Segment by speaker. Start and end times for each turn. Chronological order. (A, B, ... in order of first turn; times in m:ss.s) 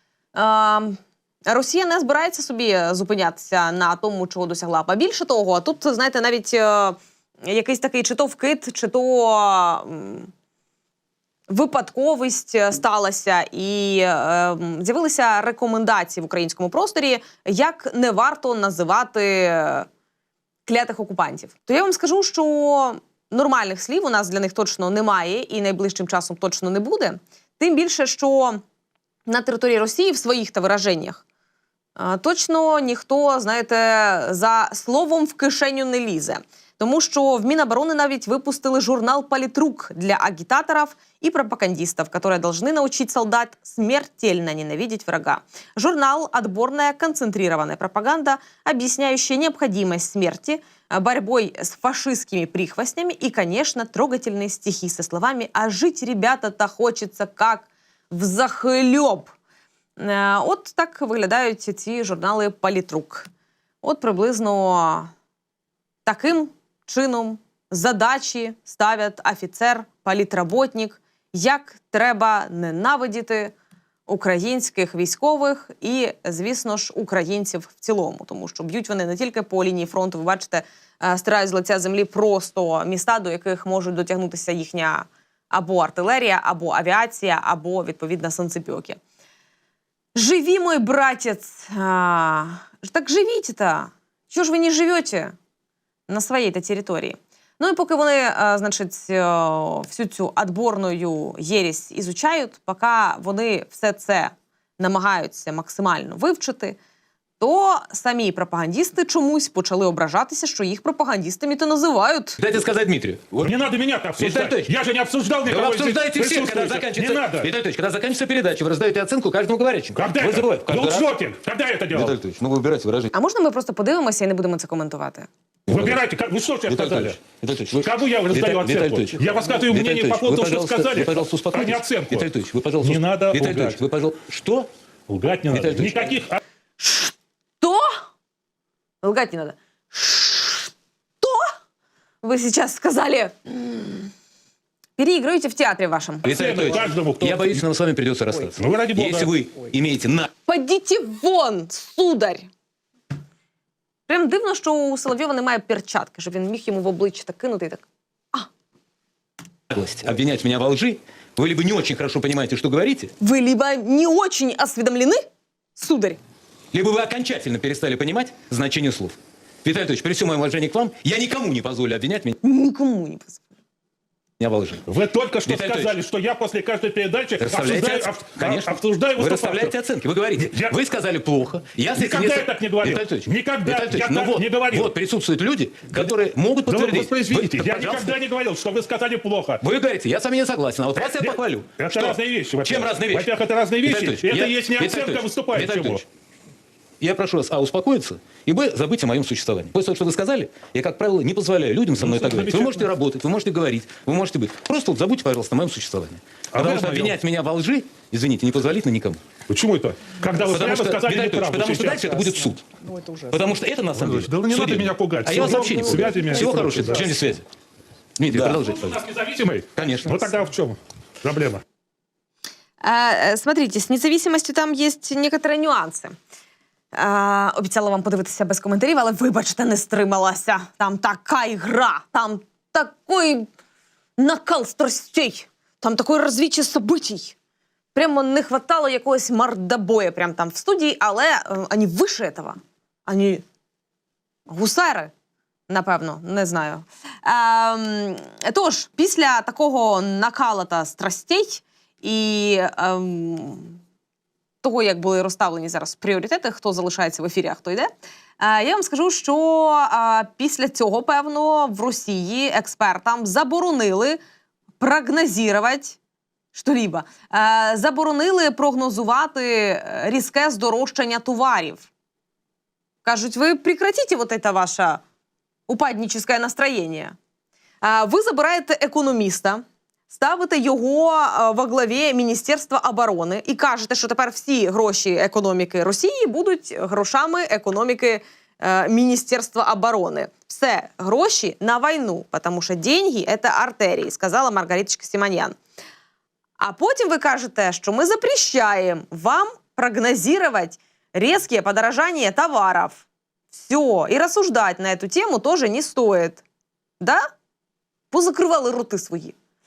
0:00.3-0:10.3 A
0:11.5-0:19.9 A
0:20.6-0:28.6 A
0:29.3-0:31.2 A
0:32.0-0:59.3 A
1:00.0-1:03.3 A
1:03.8-1:05.1 A
1:06.0-1:13.5 A
1:14.1-1:29.0 A
1:30.1-1:35.3 A
1:36.1-1:46.8 A
1:47.4-1:52.4 A
1:52.4-1:53.6 B
1:53.4-1:57.5 C
1:54.2-1:54.7 B
1:55.4-2:01.2 B
1:59.9-2:02.2 C
2:01.9-2:03.1 B
2:03.1-2:05.3 A
2:05.7-2:06.0 B
2:05.7-2:07.2 C
2:06.6-2:14.7 B
2:07.8-2:12.3 C
2:12.8-2:13.8 C
2:15.1-2:16.4 C
2:15.5-2:16.2 B
2:16.8-2:17.9 A
2:19.0-2:21.5 A
2:22.2-2:24.1 A
2:25.0-2:26.6 A
2:26.2-2:30.3 B
2:26.3-2:27.6 C
2:28.6-2:29.3 C
2:30.5-2:32.5 A
2:34.1-2:38.5 A
2:39.7-2:43.1 B
2:43.2-2:45.2 A
2:45.8-2:46.2 A
2:46.7-2:52.4 B
2:52.4-2:53.5 A
2:54.4-2:54.8 B
2:54.9-2:59.8 C
2:55.4-2:55.9 B
2:57.4-3:08.2 B
3:00.3-3:00.8 C
3:01.9-3:04.9 C
3:06.6-3:09.6 C
3:09.6-3:16.0 B
3:10.9-3:16.0 C
3:17.0-3:29.2 B
3:22.0-3:22.9 C
3:26.5-3:27.2 C
3:29.5-3:32.2 C
3:30.5-3:32.7 B
3:33.2-3:37.4 B
3:33.9-3:37.2 C
3:38.2-3:39.1 B
3:38.3-3:41.6 C
3:39.7-3:40.3 B
3:42.8-3:46.1 A
3:46.9-3:53.5 A
3:54.2-3:57.3 A
3:57.9-4:03.4 A
4:04.5-4:05.1 A
4:05.7-4:13.8 A
4:14.6-4:24.2 A
4:24.8-4:26.0 A
4:26.5-4:31.9 A
4:33.0-4:35.0 A
4:35.7-4:37.1 A
4:37.8-4:55.6 A
4:56.6-5:06.4 A
5:07.0-5:07.2 A
5:08.1-5:09.4 A